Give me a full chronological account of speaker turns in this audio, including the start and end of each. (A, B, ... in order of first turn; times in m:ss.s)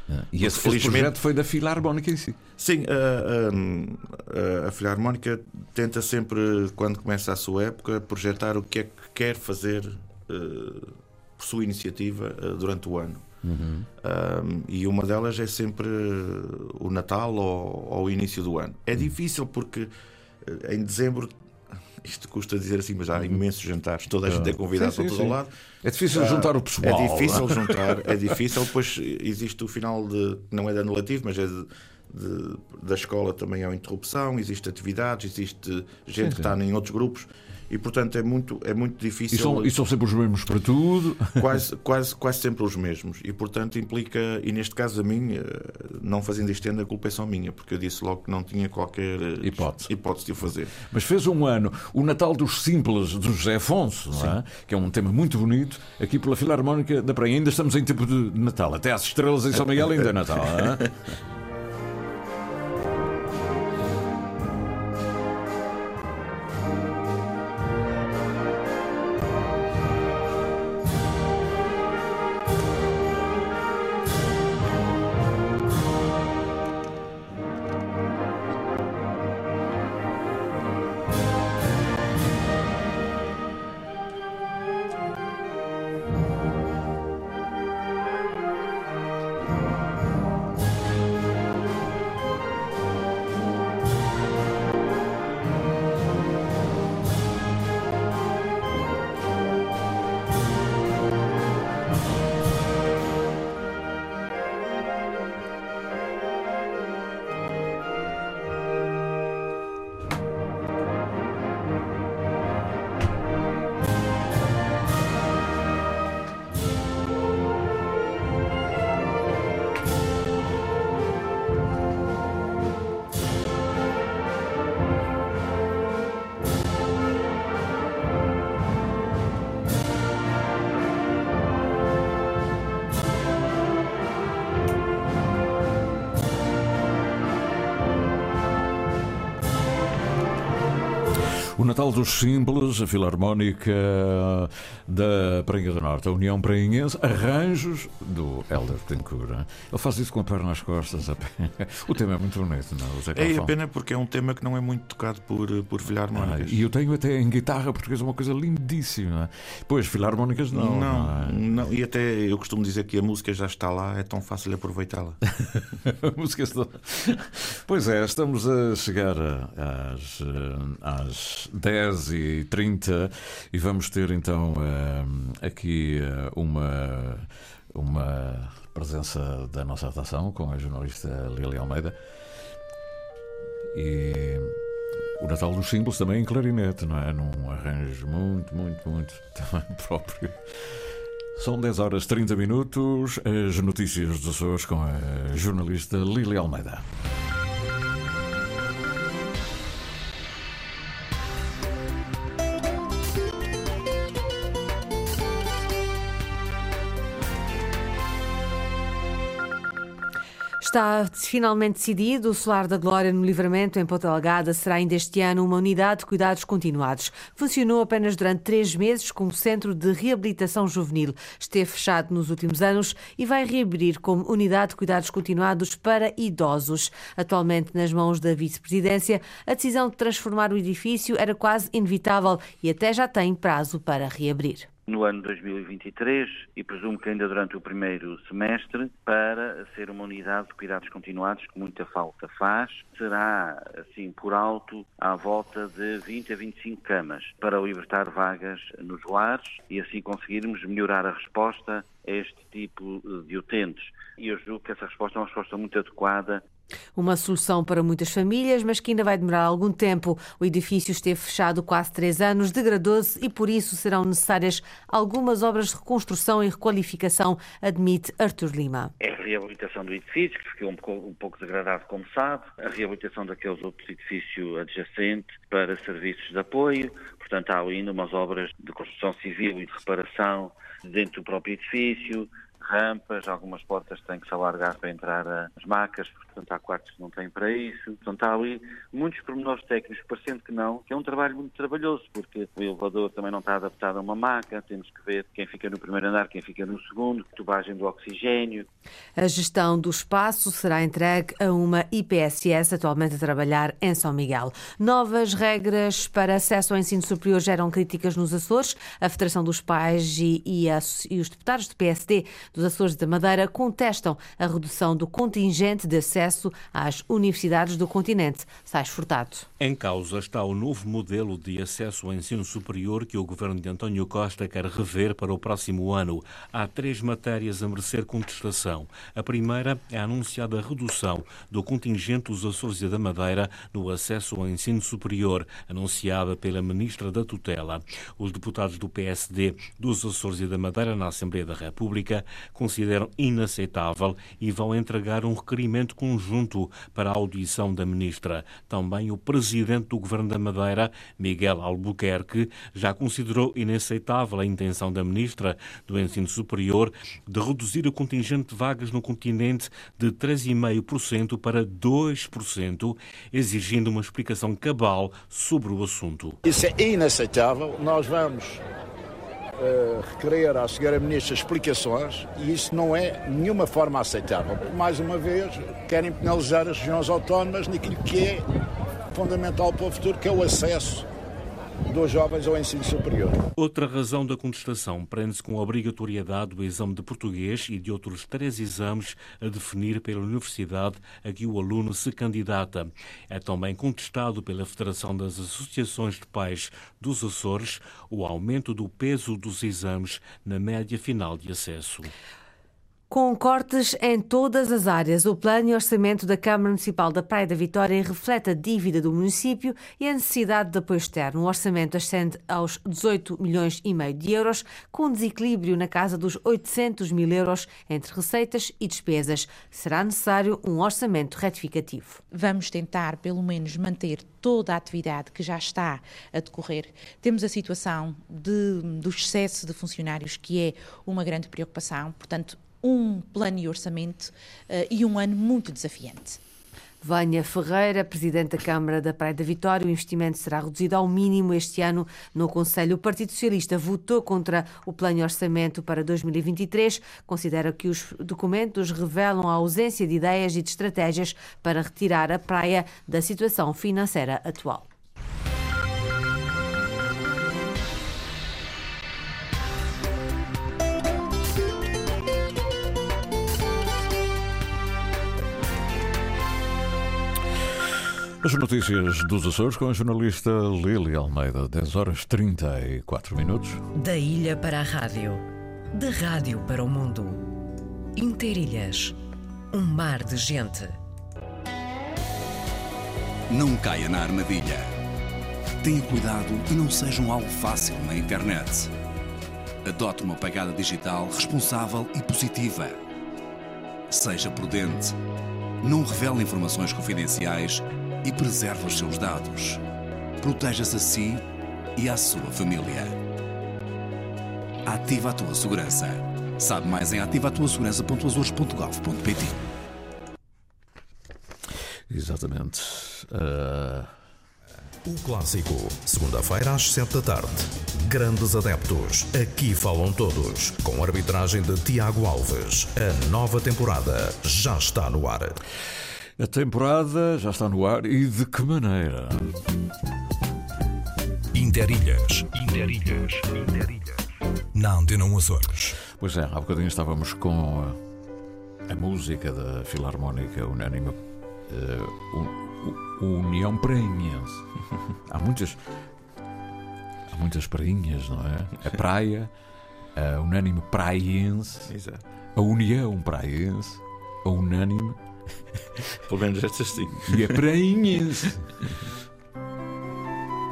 0:00.1-0:02.4 A
0:00.4-0:01.1 B
0:02.6-0:13.2 B
0:13.4-0:13.9 A
0:14.0-0:19.9 B
0:20.4-0:25.5 B
0:24.3-0:28.1 A
0:26.1-0:39.7 B
0:36.2-0:36.5 A
0:39.3-0:41.4 A
0:41.4-0:50.7 B
0:49.4-0:49.9 A
0:50.8-1:00.9 A
0:59.5-1:00.9 B
2:21.6-2:33.5 A
2:33.1-2:36.6 B
2:36.1-2:41.4 A
2:40.5-2:45.2 B
2:45.4-3:01.9 A
3:03.7-3:04.5 A
3:05.2-3:10.4 A
3:11.4-3:16.8 A
3:30.6-3:54.7 C
3:54.9-4:16.4 D
4:16.9-4:28.9 C
4:29.0-4:58.7 D
4:59.2-5:19.5 C
5:19.6-6:06.4 E
6:06.4-6:08.6 F
6:09.6-6:18.4 F
6:19.1-6:21.1 F
6:21.9-6:23.4 F
6:23.6-6:42.1 E
6:43.1-7:02.2 C
7:02.3-7:16.4 G
7:17.0-7:34.9 C
7:48.4-7:53.8 A
7:53.9-7:57.4 H
7:58.1-7:59.2 H
7:59.7-8:01.0 H
8:03.5-8:05.0 I
8:05.8-8:08.9 I
8:09.8-8:13.0 I
8:14.1-8:15.2 I
8:15.8-8:19.8 I
8:20.4-8:21.4 I
8:22.0-8:23.2 I
8:24.8-8:29.6 I
8:32.1-8:34.1 A
8:35.0-8:45.6 J
8:46.4-8:49.5 A
8:51.5-8:54.2 J
8:54.7-8:56.0 J
8:56.1-8:58.0 A
8:58.9-9:04.6 A
9:05.3-9:05.8 A
9:07.3-9:09.5 A
9:10.1-9:11.9 A
9:11.9-9:12.2 B
9:12.6-9:15.2 A
9:16.2-9:17.6 B
9:17.3-9:18.7 A